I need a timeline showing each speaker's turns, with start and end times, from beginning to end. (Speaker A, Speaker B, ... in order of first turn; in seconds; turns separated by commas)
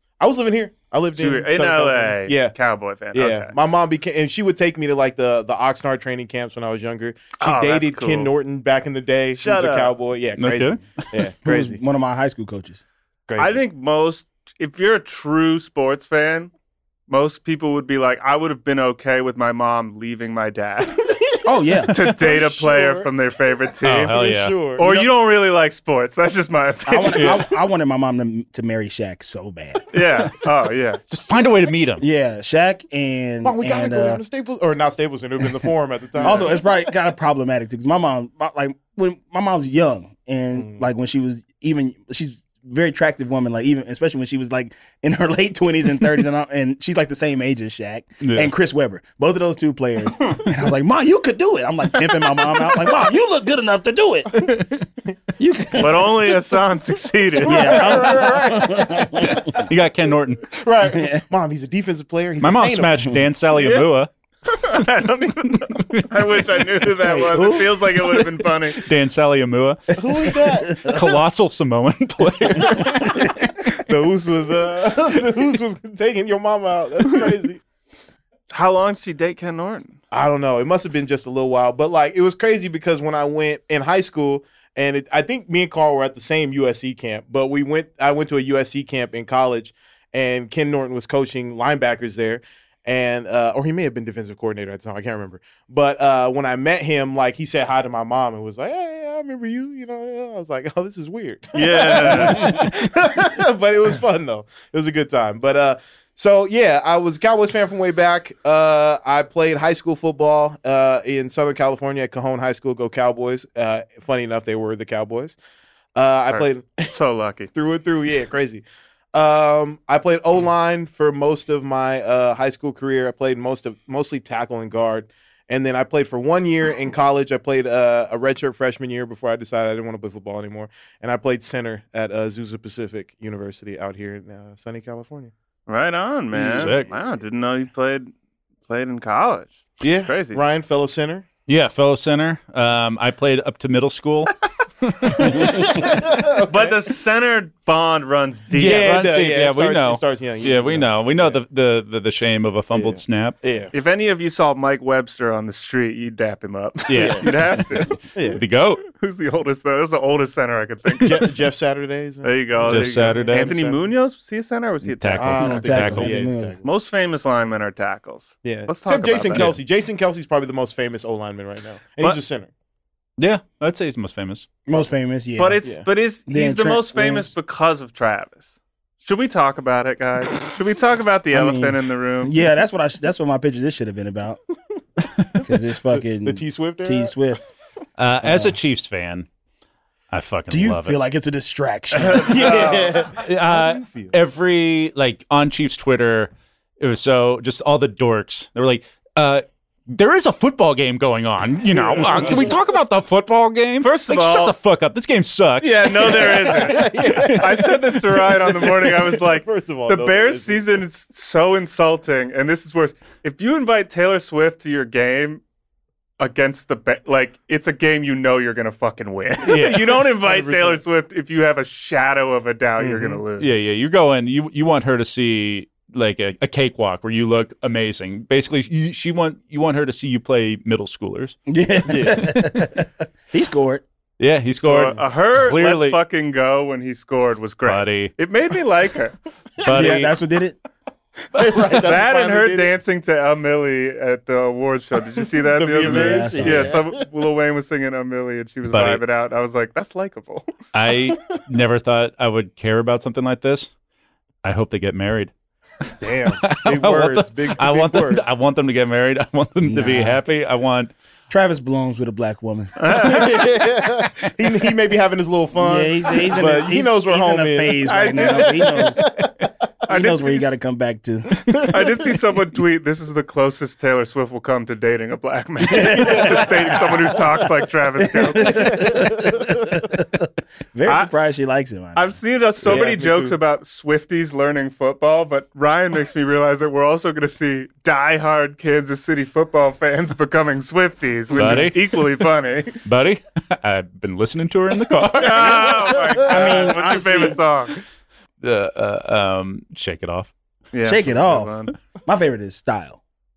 Speaker A: 0.2-2.5, Speaker B: 1.1-3.5, Speaker A: 3.1-11.8, Speaker B: 7.4-8.3, Speaker B: 9.4-9.9, Speaker C: 10.4-10.9, Speaker D: 11.4-12.8, Speaker A: 13.3-13.6, Speaker B: 13.4-16.5, Speaker B: 17.1-21.1, Speaker D: 21.4-22.1, Speaker B: 21.9-24.2, Speaker A: 22.0-23.1, Speaker C: 23.8-24.5, Speaker A: 24.0-24.9, Speaker B: 24.8-27.5, Speaker D: 26.9-29.8, Speaker C: 27.1-27.4, Speaker B: 29.9-31.0, Speaker C: 31.1-32.0, Speaker D: 32.0-34.2, Speaker A: 33.4-36.7, Speaker D: 36.2-54.6, Speaker B: 36.2-36.5, Speaker A: 40.5-40.8, Speaker C: 48.2-48.5, Speaker D: 55.4-56.5, Speaker B: 55.8-58.0, Speaker A: 57.4-59.6, Speaker D: 57.4-59.5, Speaker C: 59.4-60.5, Speaker A: 60.5-63.0, Speaker D: 60.9-61.2, Speaker C: 62.4-64.1, Speaker B: 63.5-63.9, Speaker B: 64.5-68.8, Speaker C: 65.7-66.9, Speaker D: 67.0-68.2, Speaker C: 68.7-73.8, Speaker D: 69.9-71.1, Speaker A: 70.0-70.9, Speaker D: 72.6-73.5, Speaker A: 73.8-77.6, Speaker B: 78.5-80.0, Speaker A: 80.1-115.3, Speaker B: 101.5-102.6, Speaker A: 115.9-116.9, Speaker B: 116.3-117.5, Speaker A: 117.5-118.6, Speaker A: 119.1-135.3, Speaker B: 135.7-138.1, Speaker A: 136.3-136.8, Speaker C: 136.5-136.9, Speaker B: 138.7-140.4, Speaker A: 139.8-141.2, Speaker C: 141.5-144.3, Speaker C: 144.8-145.6, Speaker A: 145.2-146.7, Speaker B: 146.4-148.9, Speaker C: 148.5-153.4, Speaker A: 148.6-151.4, Speaker A: 152.7-153.7, Speaker B: 153.7-158.0, Speaker C: 156.9-157.6, Speaker A: 156.9-157.2, Speaker A: 158.1-158.4, Speaker C: 158.3-158.8, Speaker B: 158.8-161.3, Speaker A: 161.0-163.9, Speaker B: 162.2-165.5, Speaker C: 162.6-163.5, Speaker C: 164.9-166.1, Speaker A: 165.2-166.6, Speaker D: 165.4-166.6, Speaker B: 166.6-169.5, Speaker A: 168.4-172.5, Speaker C: 169.3-169.6, Speaker C: 173.2-174.5, Speaker D: 174.7-175.7, Speaker B: 175.4-182.3, Speaker D: 176.3-177.3, Speaker D: 181.3-184.4, Speaker A: 185.4-187.1, Speaker D: 185.4-187.5, Speaker C: 188.0-189.3, Speaker D: 188.2-188.6, Speaker C: 190.1-191.0, Speaker D: 190.5-192.5, Speaker B: 191.9-193.1, Speaker A: 192.1-194.1, Speaker C: 193.1-206.5, Speaker A: 201.7-202.6, Speaker B: 203.8-204.5, Speaker B: 205.6-215.4, Speaker A: 206.4-210.7, Speaker B: 216.2-223.6, Speaker C: 219.4-219.9, Speaker A: 220.2-220.8, Speaker A: 222.8-223.2, Speaker C: 223.4-231.4, Speaker D: 231.5-233.8, Speaker A: 231.9-232.3, Speaker C: 232.1-232.6, Speaker C: 234.2-236.0, Speaker B: 234.6-239.2, Speaker C: 237.6-238.1, Speaker C: 239.6-240.1, Speaker D: 239.6-240.6, Speaker A: 241.3-242.7, Speaker D: 241.3-241.8, Speaker B: 241.7-250.4, Speaker A: 245.3-247.0, Speaker D: 245.8-246.8, Speaker C: 248.7-249.0, Speaker C: 250.7-253.7, Speaker C: 254.4-255.3, Speaker A: 256.0-258.2, Speaker C: 256.2-260.9, Speaker D: 259.6-260.2, Speaker D: 261.3-263.3, Speaker B: 262.8-263.4, Speaker A: 262.9-269.4, Speaker D: 265.5-269.1, Speaker B: 267.8-268.9, Speaker B: 269.9-270.6, Speaker D: 269.9-271.7, Speaker A: 271.4-271.7, Speaker B: 271.6-278.9, Speaker D: 275.7-276.6, Speaker A: 275.7-277.2, Speaker D: 278.1-282.2, Speaker A: 278.4-279.6, Speaker B: 280.9-281.1, Speaker B: 281.9-292.8, Speaker A: 282.6-283.4, Speaker C: 291.3-292.3, Speaker D: 291.4-291.7, Speaker C: 292.8-296.0, Speaker B: 295.1-297.8, Speaker D: 296.2-297.4, Speaker A: 296.2-296.8, Speaker C: 298.4-300.3, Speaker B: 300.7-301.7, Speaker D: 300.8-301.5, Speaker D: 302.1-303.0